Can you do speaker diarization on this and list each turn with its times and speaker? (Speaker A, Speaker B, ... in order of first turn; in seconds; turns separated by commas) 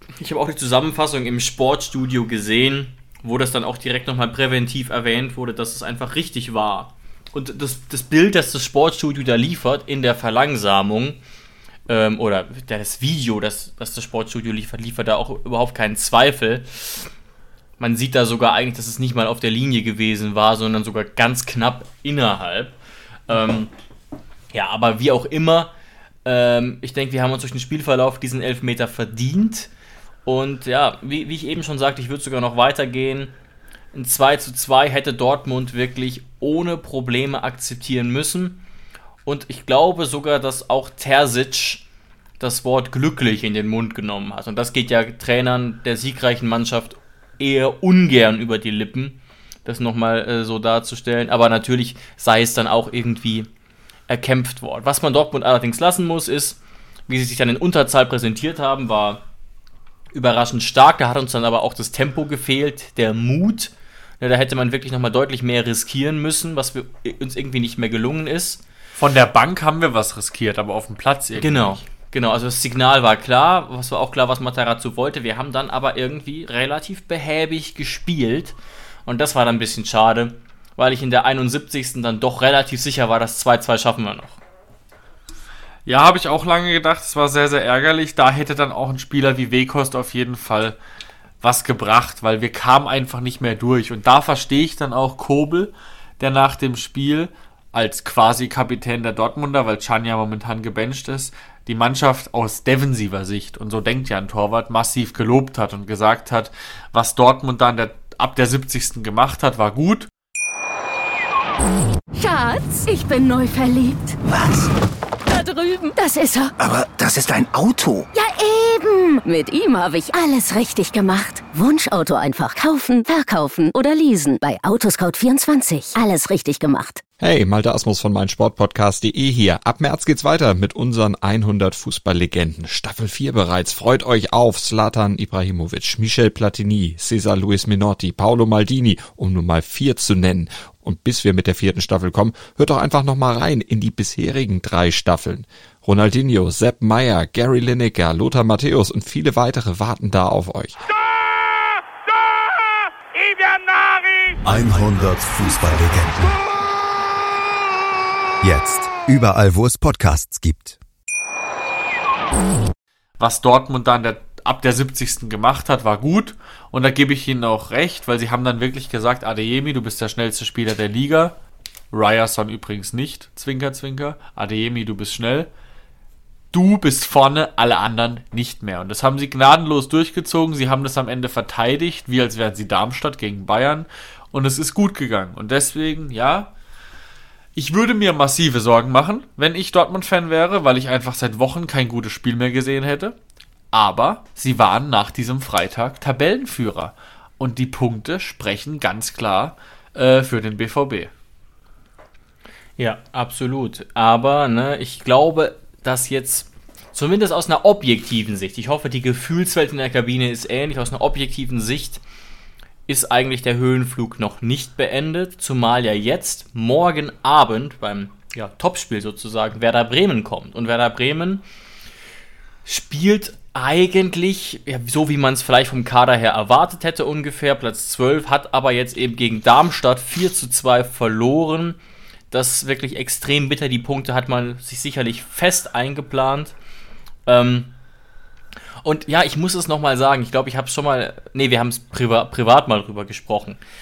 Speaker A: 0.2-11.2, Speaker A: 11.9-17.1, Speaker A: 17.8-22.8, Speaker A: 23.3-23.7, Speaker A: 24.5-25.7, Speaker A: 26.2-29.7, Speaker A: 30.3-33.3, Speaker A: 33.9-38.6, Speaker A: 39.2-41.9, Speaker A: 42.4-53.5, Speaker A: 54.1-59.2, Speaker A: 60.1-68.6, Speaker B: 69.0-71.8, Speaker A: 71.4-84.4, Speaker B: 85.9-90.8, Speaker B: 91.4-110.1, Speaker C: 112.1-114.2, Speaker D: 114.3-114.7, Speaker C: 115.3-116.5, Speaker D: 116.6-118.1, Speaker C: 118.1-127.0, Speaker E: 127.2-150.9, Speaker F: 154.4-156.4, Speaker F: 158.4-160.8, Speaker B: 163.2-171.4, Speaker B: 171.9-175.5, Speaker B: 176.5-186.5, Speaker B: 187.6-193.2, Speaker B: 193.7-201.1, Speaker A: 202.8-212.0, Speaker A: 212.9-221.4, Speaker A: 222.7-231.8, Speaker A: 232.3-236.5, Speaker A: 237.3-237.7, Speaker A: 238.8-243.6